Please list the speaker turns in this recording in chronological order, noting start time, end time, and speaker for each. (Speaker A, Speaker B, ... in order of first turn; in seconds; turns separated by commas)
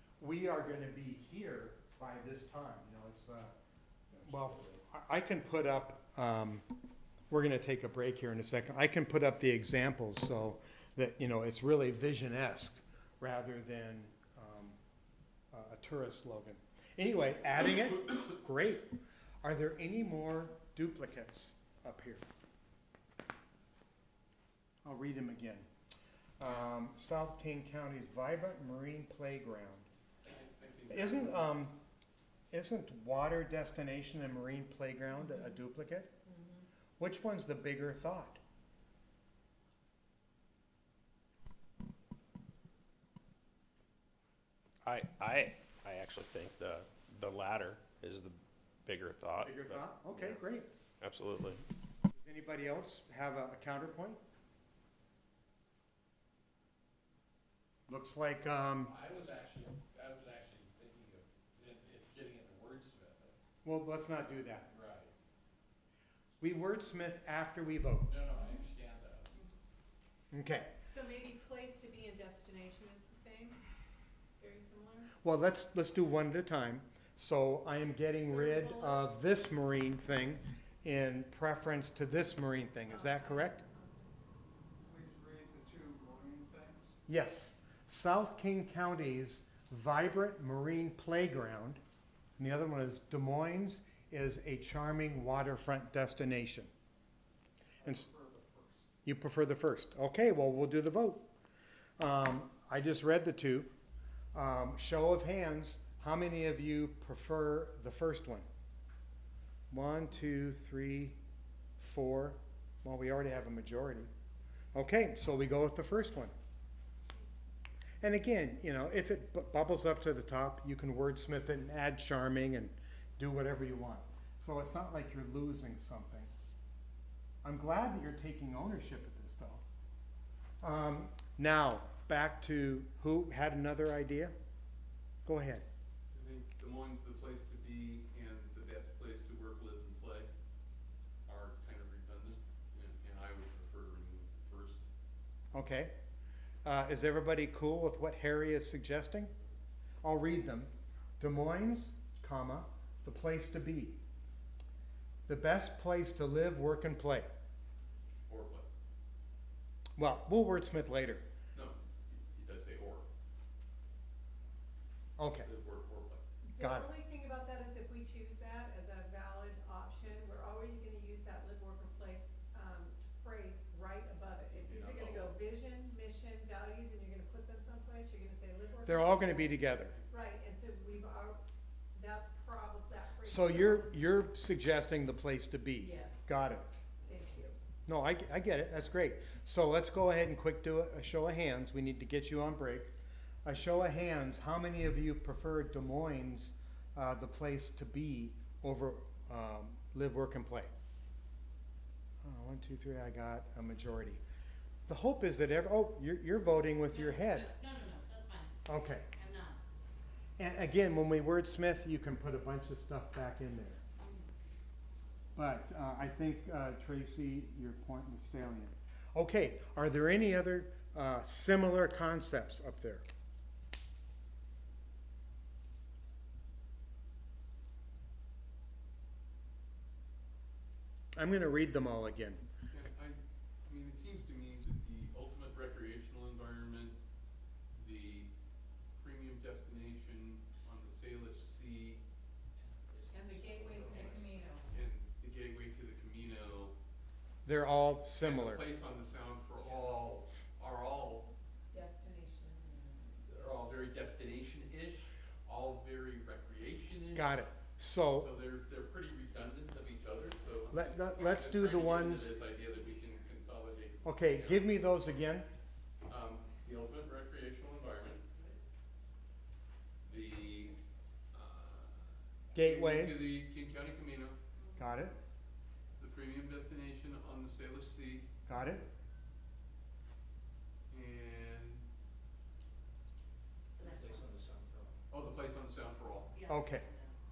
Speaker A: 0.2-3.5, Speaker A: 4.2-6.6, Speaker A: 7.3-14.8, Speaker A: 15.5-22.2, Speaker A: 24.8-25.7, Speaker A: 26.4-29.9, Speaker B: 30.2-31.4, Speaker A: 30.9-31.8, Speaker A: 32.5-36.1, Speaker C: 35.2-35.5, Speaker C: 36.3-36.6, Speaker A: 37.0-38.4, Speaker D: 44.9-50.4, Speaker A: 49.4-50.7, Speaker D: 51.0-51.6, Speaker A: 52.1-54.2, Speaker A: 57.9-59.0, Speaker E: 58.9-63.4, Speaker A: 63.6-64.7, Speaker E: 64.7-65.1, Speaker A: 66.4-68.1, Speaker E: 68.1-69.3, Speaker A: 70.3-70.7, Speaker C: 70.9-73.6, Speaker C: 74.4-75.1, Speaker A: 75.2-83.6, Speaker C: 78.3-79.1, Speaker C: 82.9-84.1, Speaker F: 84.8-86.9, Speaker A: 87.1-91.8, Speaker A: 92.4-96.7, Speaker A: 97.8-98.1, Speaker F: 98.0-98.8, Speaker A: 99.0-101.3, Speaker A: 102.0-103.7, Speaker A: 104.3-108.5, Speaker A: 109.7-111.2, Speaker A: 111.8-114.1, Speaker A: 114.7-116.3, Speaker A: 118.0-126.3, Speaker A: 127.4-129.6, Speaker A: 130.6-134.3, Speaker A: 135.3-135.7, Speaker B: 136.1-140.3, Speaker B: 141.3-144.9, Speaker A: 145.5-145.9, Speaker A: 146.7-149.3, Speaker A: 150.0-154.0, Speaker A: 155.3-157.3, Speaker B: 158.3-158.7, Speaker A: 160.0-161.2, Speaker B: 161.5-163.1, Speaker A: 165.2-165.5, Speaker B: 165.4-166.2, Speaker C: 166.4-179.6, Speaker A: 166.6-166.9, Speaker B: 174.5-175.4, Speaker A: 178.8-179.9, Speaker C: 180.1-181.4, Speaker C: 181.9-184.0, Speaker A: 183.2-186.6, Speaker C: 185.8-186.2, Speaker C: 187.0-187.6, Speaker A: 187.9-192.9, Speaker A: 193.4-200.7, Speaker A: 202.2-204.2, Speaker A: 204.9-207.5, Speaker G: 206.9-208.5, Speaker A: 208.7-209.1, Speaker G: 209.1-209.6, Speaker A: 210.4-213.8, Speaker G: 214.0-214.2, Speaker A: 215.4-223.1, Speaker A: 231.2-232.4, Speaker B: 232.7-237.0, Speaker B: 237.8-238.3, Speaker B: 239.0-242.0, Speaker E: 242.9-244.0, Speaker C: 243.1-244.6, Speaker B: 243.8-246.7, Speaker A: 247.4-248.6, Speaker B: 248.2-251.3, Speaker C: 251.7-253.6, Speaker B: 253.3-257.3, Speaker A: 257.1-258.3, Speaker B: 258.1-264.7, Speaker A: 260.7-262.3, Speaker A: 264.1-265.5, Speaker B: 266.1-268.3, Speaker B: 270.0-270.8, Speaker B: 271.3-274.4, Speaker A: 272.5-273.2, Speaker A: 274.8-275.2, Speaker B: 276.0-278.3, Speaker A: 278.5-278.9, Speaker B: 280.9-281.9, Speaker G: 283.8-284.3, Speaker F: 283.9-284.9, Speaker B: 285.1-286.3, Speaker G: 286.3-287.1, Speaker A: 286.5-286.9